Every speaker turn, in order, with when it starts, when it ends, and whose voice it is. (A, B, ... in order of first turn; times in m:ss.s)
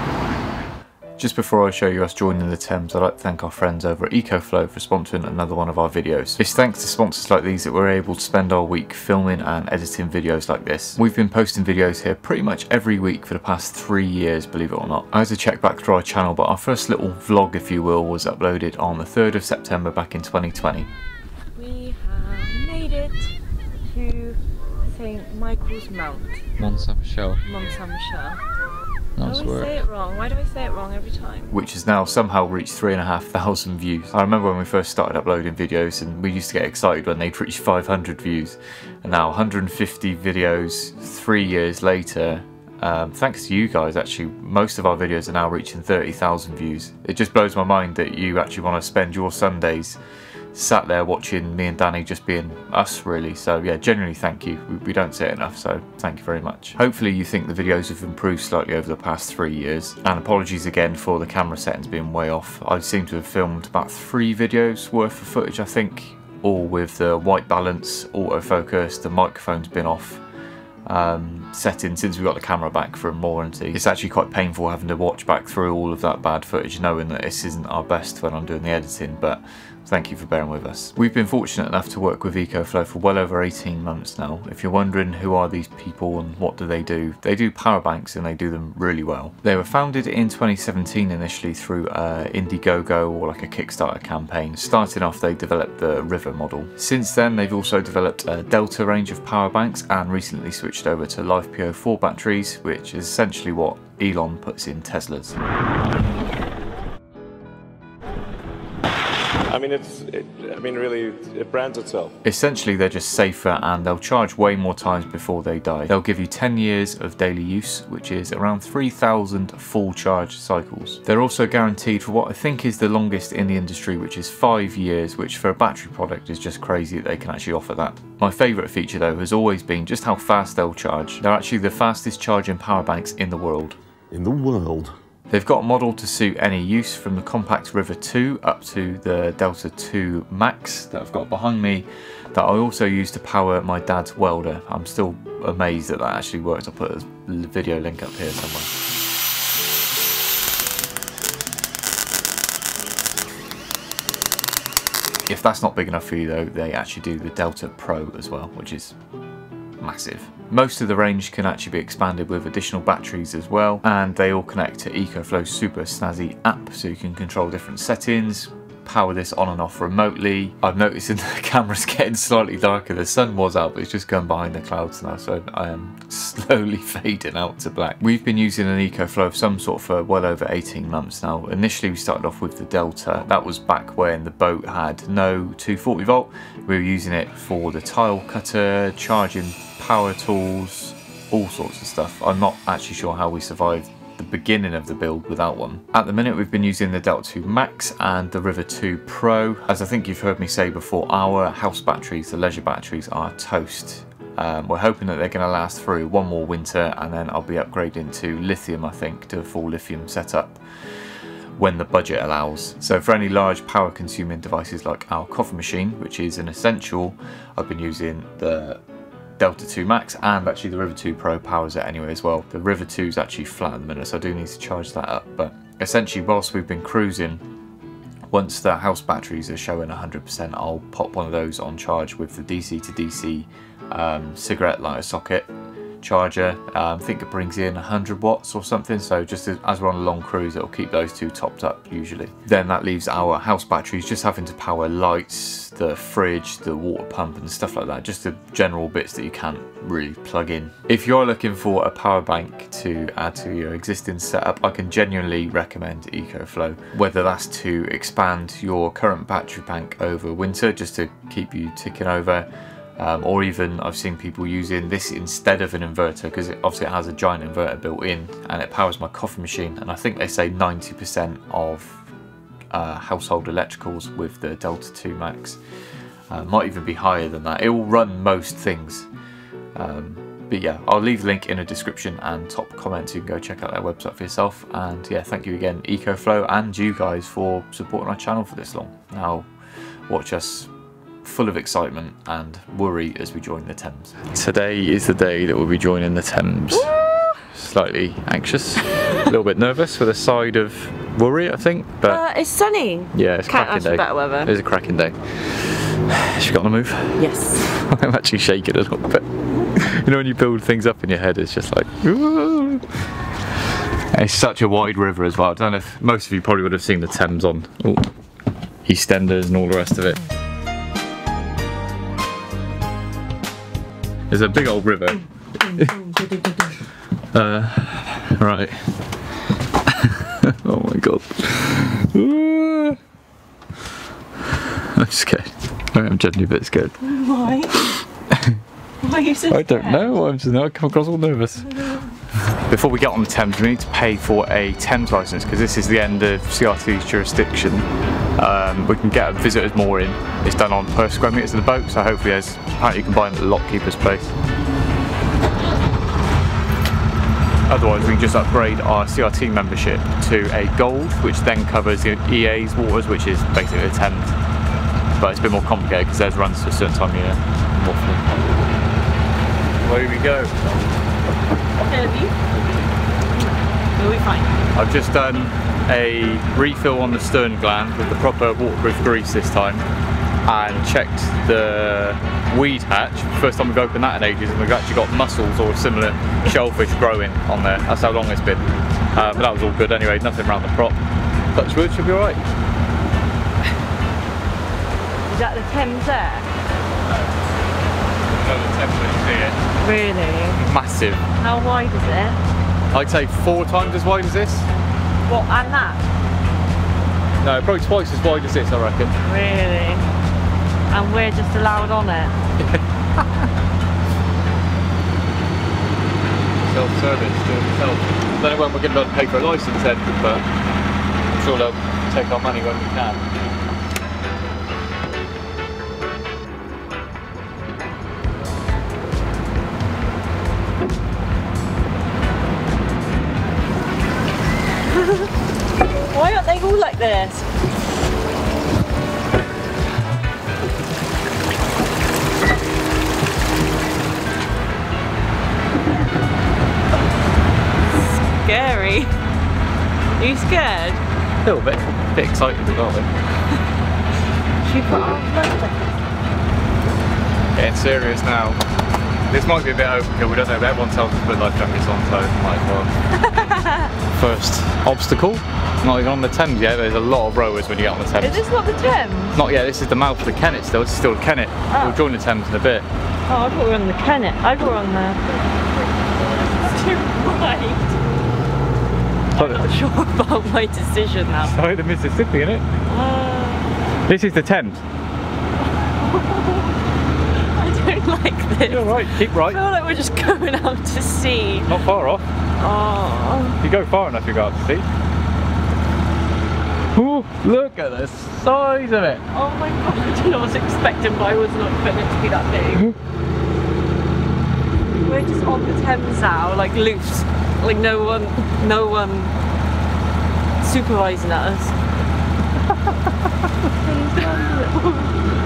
0:01.2-0:20.9 A
0:21.6-0:23.3 B
0:23.9-0:24.4 B
0:24.9-0:26.4 B
0:26.6-0:27.4 A
0:27.4-0:28.4 B
0:29.2-0:29.7 A
0:29.2-0:31.5 B
0:31.5-0:50.0 A
0:50.5-1:10.2 A
1:10.9-1:45.4 A
1:49.5-1:52.2 C
1:52.2-2:13.8 A
2:14.1-2:14.9 C
2:15.3-2:28.7 A
2:35.3-2:39.0 A
2:39.8-3:30.6 A
3:31.6-3:38.8 A
3:39.4-3:47.4 A
3:48.3-3:55.5 A
3:56.0-4:22.5 A
4:23.0-4:32.0 A
4:32.7-4:35.6 A
4:36.3-4:39.1 A
4:39.8-4:49.5 A
4:50.1-4:50.7 A
4:51.2-5:02.2 A
4:56.7-4:57.4 B
5:02.0-5:04.5 B
5:03.1-5:13.0 A
5:07.2-5:07.7 B
5:14.1-5:18.1 A
5:18.8-5:20.2 A
5:24.3-5:26.0 A
5:25.8-5:26.7 B
5:27.3-5:28.9 A
5:29.9-5:33.0 A
5:34.6-5:37.0 A
5:37.0-5:38.0 B
5:38.3-5:38.6 A
5:39.0-5:40.2 B
5:39.5-5:54.4 A
5:57.7-6:04.4 A
6:05.2-6:08.4 A
6:09.8-6:10.5 A
6:11.8-6:12.4 B
6:12.5-6:12.9 A
6:13.4-6:14.5 B
6:14.8-6:19.8 A
6:20.4-6:31.0 A
6:31.5-6:32.4 A
6:35.3-6:36.5 B
6:38.4-6:39.6 A
6:39.8-6:40.6 B
6:40.6-6:41.2 A
6:41.4-6:42.4 B
6:42.9-6:44.7 A
6:45.3-6:46.0 B
6:47.4-6:49.2 A
6:49.2-6:50.1 B
6:50.9-6:52.4 B
6:52.6-6:53.2 A
6:56.6-7:00.4 A
7:01.4-7:03.2 A
7:14.9-7:15.3 B
7:16.1-7:17.5 B
7:27.9-7:29.1 B
7:30.2-7:31.0 B
7:31.4-7:33.1 A
7:34.6-7:35.9 B
7:37.6-7:38.6 A
7:39.3-7:42.9 A
7:43.2-7:43.9 B
7:44.1-7:48.4 A
7:48.2-7:49.4 B
7:49.3-7:52.9 A
7:51.7-7:52.0 B
7:53.3-7:58.0 B
7:59.3-8:01.6 B
7:59.4-7:59.6 A
8:01.4-8:02.7 A
8:02.9-8:03.8 B
8:04.1-8:04.8 A
8:05.8-8:06.8 B
8:07.3-8:11.7 B
8:08.7-8:09.6 A
8:11.7-8:12.2 A
8:12.6-8:13.6 B
8:13.6-8:14.9 A
8:16.9-8:19.2 A
8:19.3-8:22.9 B
8:25.0-8:29.3 B
8:30.6-8:31.8 B
8:33.8-8:35.2 B